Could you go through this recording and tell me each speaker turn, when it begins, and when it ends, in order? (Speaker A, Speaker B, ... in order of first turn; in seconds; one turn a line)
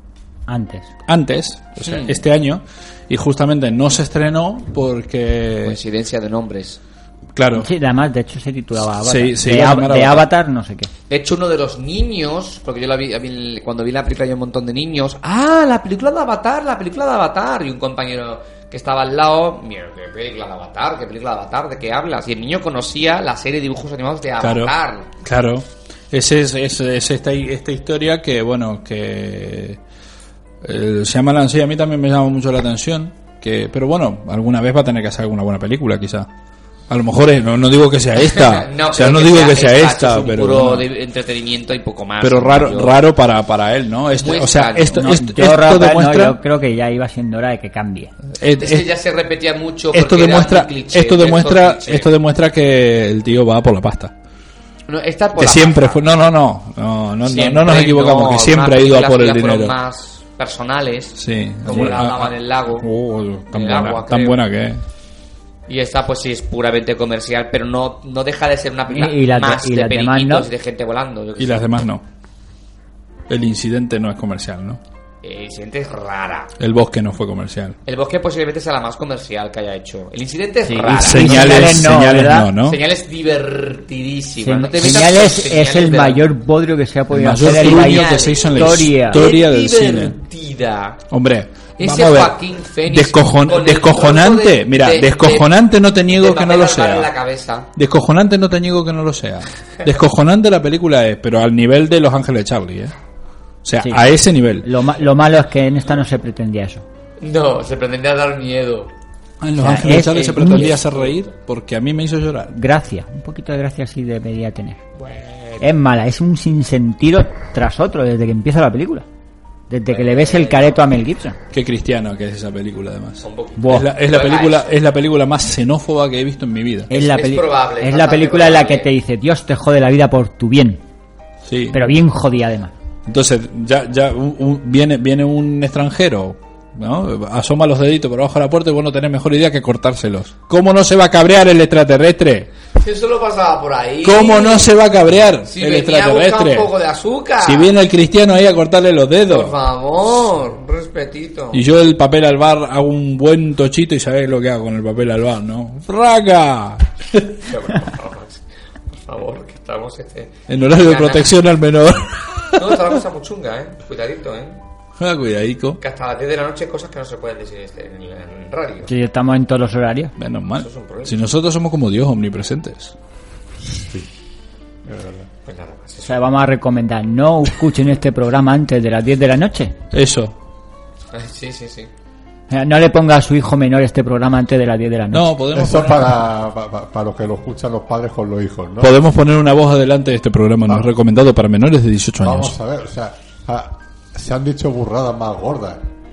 Speaker A: 0.5-0.9
Speaker B: 1.1-5.8
Speaker C: 1.8-2.2
Speaker C: 5.6-6.8
Speaker B: 7.3-7.7
Speaker A: 7.6-10.9
Speaker B: 9.0-10.3
Speaker C: 11.1-25.1
Speaker B: 24.4-29.8
Speaker B: 30.6-36.3
Speaker B: 36.9-40.8
Speaker C: 38.1-43.0
Speaker B: 42.2-46.4
Speaker C: 44.1-45.1
Speaker A: 44.9-48.1
Speaker B: 48.4-48.8
Speaker C: 48.6-52.1
Speaker B: 49.9-54.1
Speaker C: 54.9-56.0
Speaker B: 55.4-59.7
Speaker C: 57.2-62.9
Speaker B: 61.1-64.8
Speaker C: 63.5-64.4
Speaker C: 65.7-71.7
Speaker A: 68.9-70.5
Speaker B: 71.4-72.0
Speaker B: 73.3-74.8
Speaker C: 75.2-76.5
Speaker B: 76.6-77.8
Speaker C: 77.8-81.9
Speaker A: 80.6-82.5
Speaker B: 80.7-82.8
Speaker C: 82.6-86.2
Speaker A: 84.4-89.2
Speaker B: 87.1-90.1
Speaker C: 87.4-91.0
Speaker B: 91.1-97.1
Speaker C: 91.8-95.5
Speaker C: 96.1-97.7
Speaker B: 97.8-102.9
Speaker B: 103.6-104.7
Speaker A: 104.6-106.8
Speaker C: 107.2-108.9
Speaker B: 109.4-112.5
Speaker A: 109.6-110.8
Speaker C: 109.8-111.2
Speaker A: 112.5-114.8
Speaker C: 115.0-115.6
Speaker A: 115.6-119.0
Speaker A: 119.7-121.4
Speaker C: 119.9-120.8
Speaker B: 121.5-126.9
Speaker C: 123.2-124.7
Speaker A: 123.6-123.9
Speaker C: 126.9-128.9
Speaker A: 126.9-130.8
Speaker B: 131.4-131.8
Speaker A: 131.7-132.7
Speaker B: 133.1-142.5
Speaker C: 142.7-144.7
Speaker B: 144.0-146.7
Speaker C: 145.4-147.7
Speaker B: 147.4-149.5
Speaker C: 149.3-151.6
Speaker B: 151.5-157.4
Speaker C: 157.5-161.3
Speaker B: 160.5-162.6
Speaker C: 162.5-164.6
Speaker B: 165.0-165.8
Speaker C: 165.8-168.9
Speaker A: 168.8-170.1
Speaker B: 170.2-172.9
Speaker C: 170.5-171.3
Speaker D: 173.6-174.1
Speaker D: 174.8-175.3
Speaker C: 175.4-176.2
Speaker A: 176.0-179.8
Speaker B: 179.9-180.3
Speaker C: 181.1-181.9
Speaker A: 182.5-185.3
Speaker B: 185.1-186.1
Speaker D: 185.5-188.9
Speaker B: 188.8-192.5
Speaker D: 192.2-195.9